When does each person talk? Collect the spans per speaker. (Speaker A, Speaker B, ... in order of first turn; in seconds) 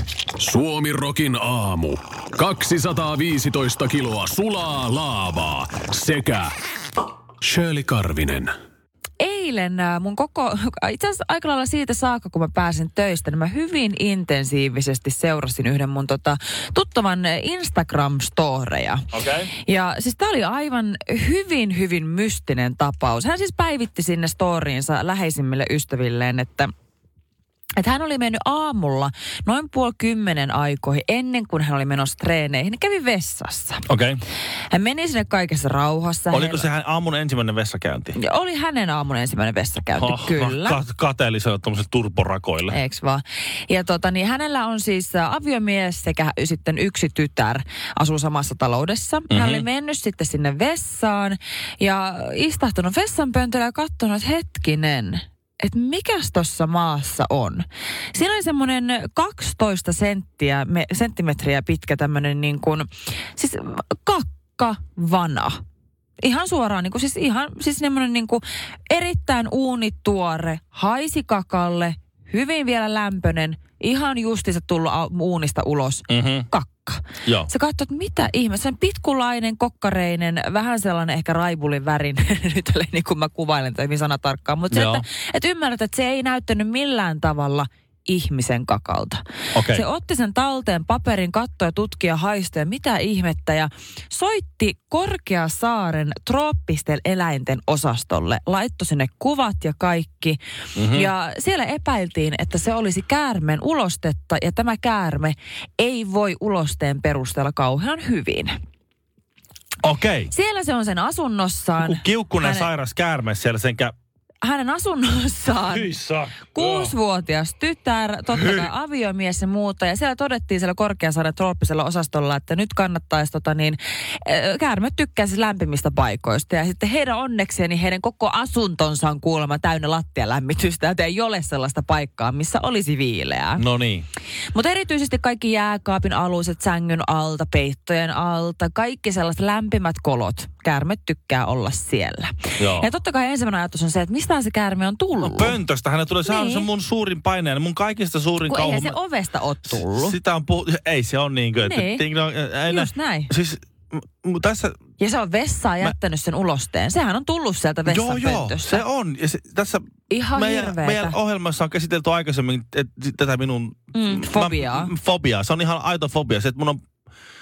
Speaker A: 0.4-6.5, 7.4-8.5
Speaker B: 9.2-19.0, 19.6-26.7, 27.8-33.8, 34.7-36.7, 38.1-40.8, 42.7-65.6, 66.2-100.4, 100.9-108.5, 110.3-112.7, 114.4-133.6, 134.5-145.6, 146.2-146.7, 148.4-150.2, 151.6-152.0, 152.7-153.3, 155.0-158.8, 160.1-161.2, 163.9-164.9
Speaker C: 19.1-19.5, 33.9-34.2, 36.3-38.2, 39.9-42.8, 49.3-49.6, 76.1-76.5, 77.2-77.5, 84.7-85.0, 89.5-89.8, 100.8-101.1, 109.8-110.3, 111.8-113.9, 115.7-116.9, 118.3-118.7, 133.6-134.1, 142.6-142.9, 145.2-148.9, 149.7-154.8, 157.8-166.8